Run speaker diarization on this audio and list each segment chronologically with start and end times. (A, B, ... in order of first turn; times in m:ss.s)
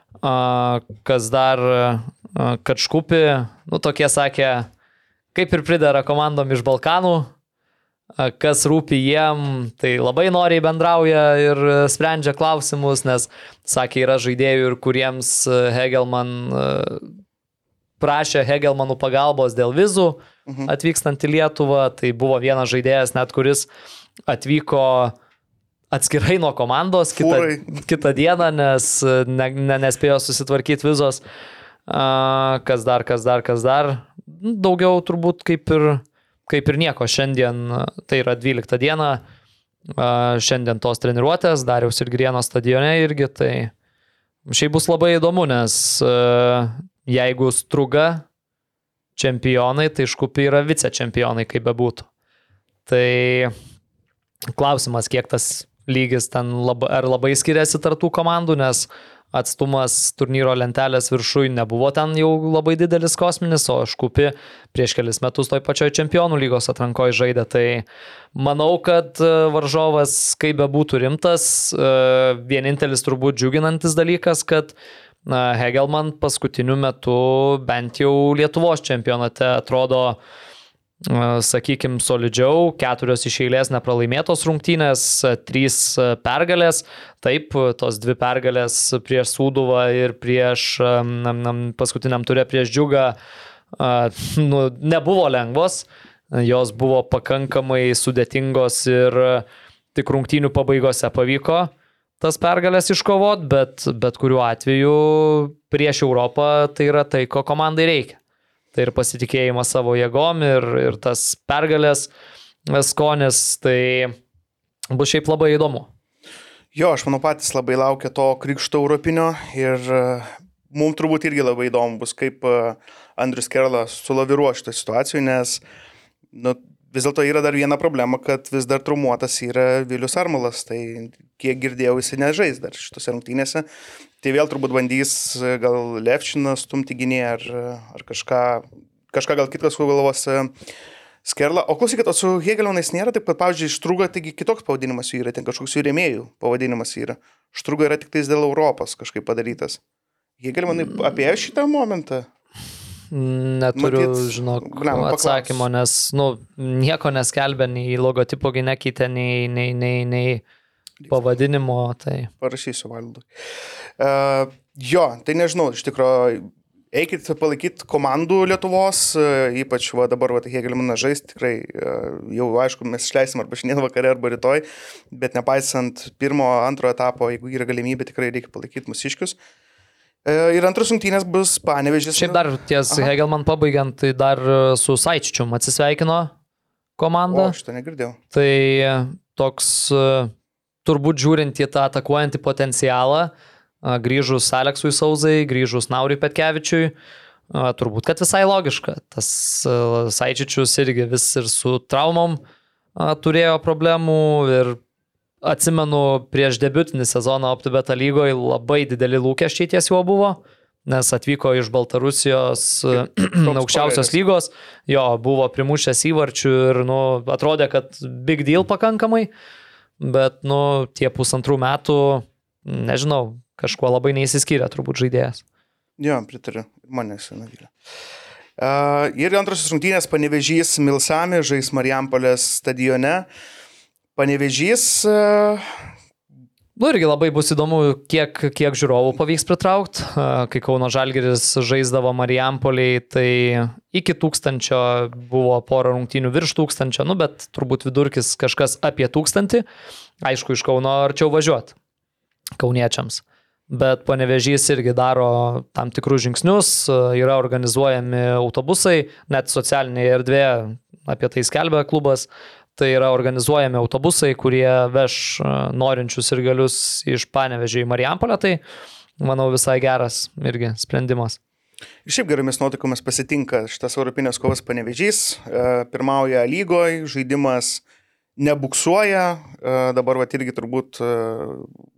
0:00.2-0:04.7 A
0:05.3-0:07.3 A
0:08.2-0:17.1 A
0:18.0-0:23.7 A
0:24.3-0:25.2 A
0:25.9-0:31.2 A
0:27.1-0:27.8 B
0:31.9-0:39.2 A
0:40.0-0:43.7 A
0:44.5-0:48.2 A
0:49.2-0:52.1 A
0:52.9-0:53.5 A
0:54.6-1:14.7 A
1:15.3-1:20.2 A
1:21.0-1:33.2 A
1:33.8-1:48.2 A
1:48.8-1:52.1 A
1:52.7-1:54.2 A
1:54.9-1:55.9 A
1:56.7-2:05.6 B
2:06.3-2:13.7 B
2:14.2-2:20.5 B
2:21.2-2:29.8 B
2:30.4-2:32.3 B
2:33.1-2:40.4 A
2:33.8-2:35.7 B
2:41.1-2:42.3 A
2:42.4-2:43.3 B
2:44.0-2:59.4 B
3:00.2-3:03.1 B
3:02.2-3:06.3 A
3:07.0-3:07.6 A
3:07.3-3:08.2 B
3:08.3-3:10.3 A
3:10.8-3:13.3 A
3:13.8-3:16.9 A
3:17.5-3:22.4 A
3:23.0-3:24.8 A
3:25.4-3:39.3 A
3:32.9-3:34.2 B
3:40.0-3:45.4 A
3:46.0-3:47.7 B
3:48.6-3:53.3 B
3:54.2-3:55.7 B
3:56.8-4:09.6 A
4:10.2-4:11.7 A
4:12.6-4:28.6 A
4:29.2-4:31.4 A
4:32.1-4:37.8 B
4:38.4-4:41.7 B